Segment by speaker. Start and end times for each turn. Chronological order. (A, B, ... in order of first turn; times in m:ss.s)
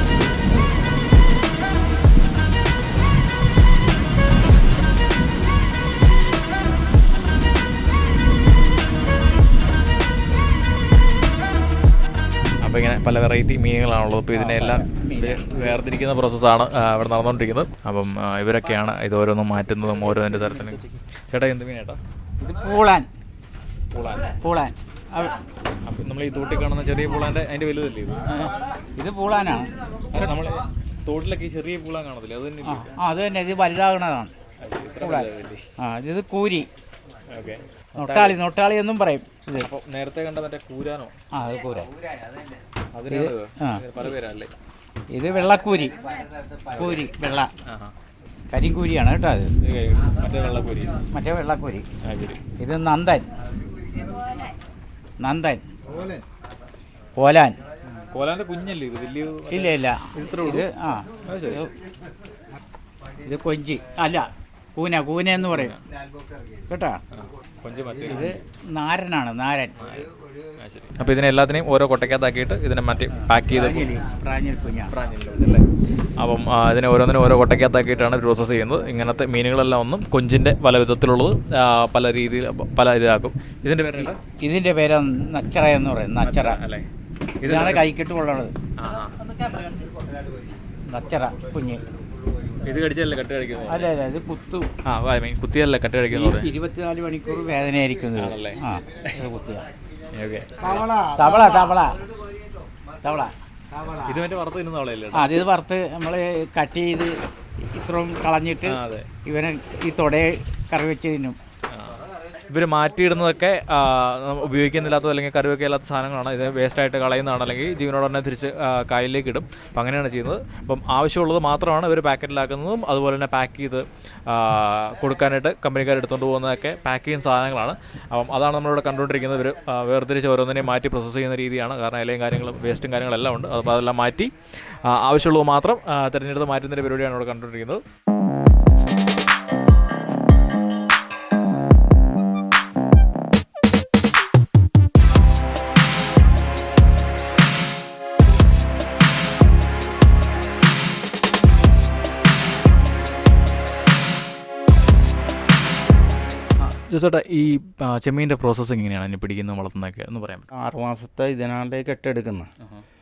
0:12.6-0:22.0 A
0:14.3-0:15.7 B
0:22.4-0:23.1 B
0:23.9-0:24.3 A
0:24.4-0:25.4 B
0:25.9-0:28.2 A
0:28.3-0:29.7 B
0:30.1-0:32.9 A
0:32.6-0:34.3 B
0:34.6-0:35.7 A
0:35.0-0:36.7 B
0:37.3-0:38.4 A
0:38.0-0:39.7 B
0:39.6-0:41.1 A
0:41.3-0:41.9 B
0:42.9-0:44.5 A
0:43.1-0:43.8 B
0:45.1-0:46.1 B
0:46.7-0:47.5 B
0:47.6-0:47.9 A
0:48.5-0:49.5 B
0:49.6-0:51.0 A
0:51.1-0:51.8 B
0:52.0-0:52.4 A
0:52.6-0:53.3 B
0:55.2-0:55.6 B
0:55.9-0:56.2 A
0:57.2-0:57.6 B
0:57.8-1:00.6 A
0:59.5-1:01.7 B
1:01.2-1:01.6 A
1:03.2-1:05.7 B
1:06.7-1:07.0 B
1:07.1-1:08.3 A
1:08.0-1:09.7 B
1:09.8-1:13.9 A
1:13.4-1:14.9 B
1:14.9-1:15.6 A
1:16.2-1:24.2 A
1:24.0-1:26.6 B
1:26.2-1:26.9 A
1:27.4-1:27.9 A
1:27.4-1:28.5 B
1:28.8-1:29.2 A
1:29.3-1:29.8 B
1:30.9-1:31.8 B
1:32.6-1:33.9 A
1:33.7-1:34.7 B
1:34.8-1:36.5 A
1:36.1-1:39.7 B
1:38.2-1:39.1 A
1:40.1-1:40.9 A
1:40.7-1:42.0 B
1:43.0-1:43.3 B
1:43.9-1:45.4 A
1:45.1-1:47.2 B
1:47.7-1:51.4 B
1:48.6-1:49.1 A
1:52.5-2:17.8 A
2:36.6-2:40.5 A
2:40.5-2:42.5 C